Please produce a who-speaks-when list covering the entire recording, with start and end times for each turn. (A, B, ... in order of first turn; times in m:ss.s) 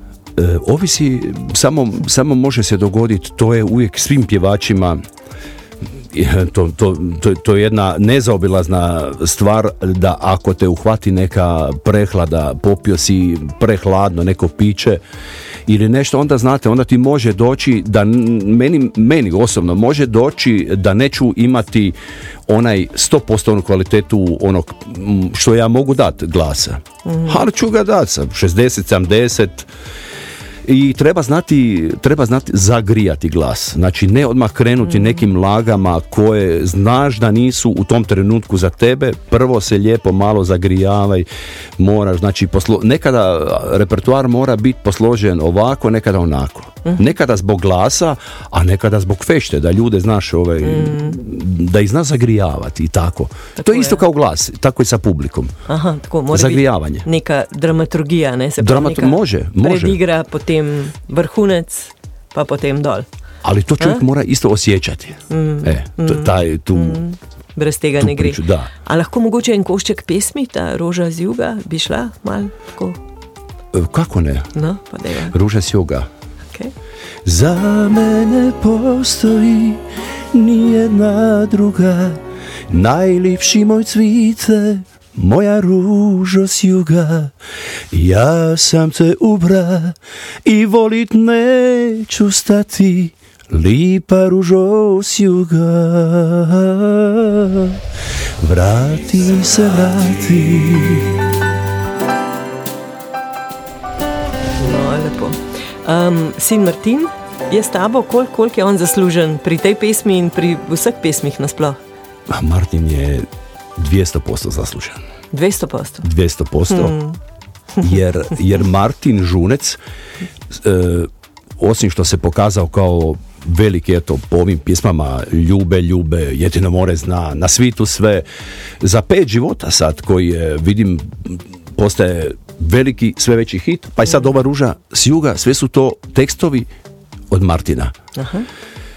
0:00.4-0:05.0 A
0:06.1-0:15.0 A
0:15.7-0:22.0 A
0:22.5-0:29.7 A
0:27.0-0:27.5 B
0:30.6-0:41.3 A
0:34.9-0:35.2 B
0:41.8-0:55.5 A
0:50.6-0:51.2 B
0:53.6-0:54.0 B
0:55.7-1:03.1 B
0:56.3-0:57.1 A
0:58.6-1:00.0 A
1:03.4-1:07.0 A
1:05.3-1:13.0 B
1:08.0-1:08.7 A
1:13.7-1:14.5 A
1:14.6-1:15.3 B
1:15.3-1:16.1 A
1:17.2-1:27.3 A
1:27.9-1:37.8 A
1:38.4-1:41.3 A
1:44.6-1:51.8 B
1:52.3-1:53.3 A
1:53.8-1:55.0 A
1:55.3-1:56.0 B
1:56.0-1:57.0 A
1:56.7-1:57.2 B
1:57.8-1:59.8 A
2:00.5-2:08.3 A
2:08.8-2:16.7 A
2:17.3-2:17.9 A
2:18.2-2:18.5 B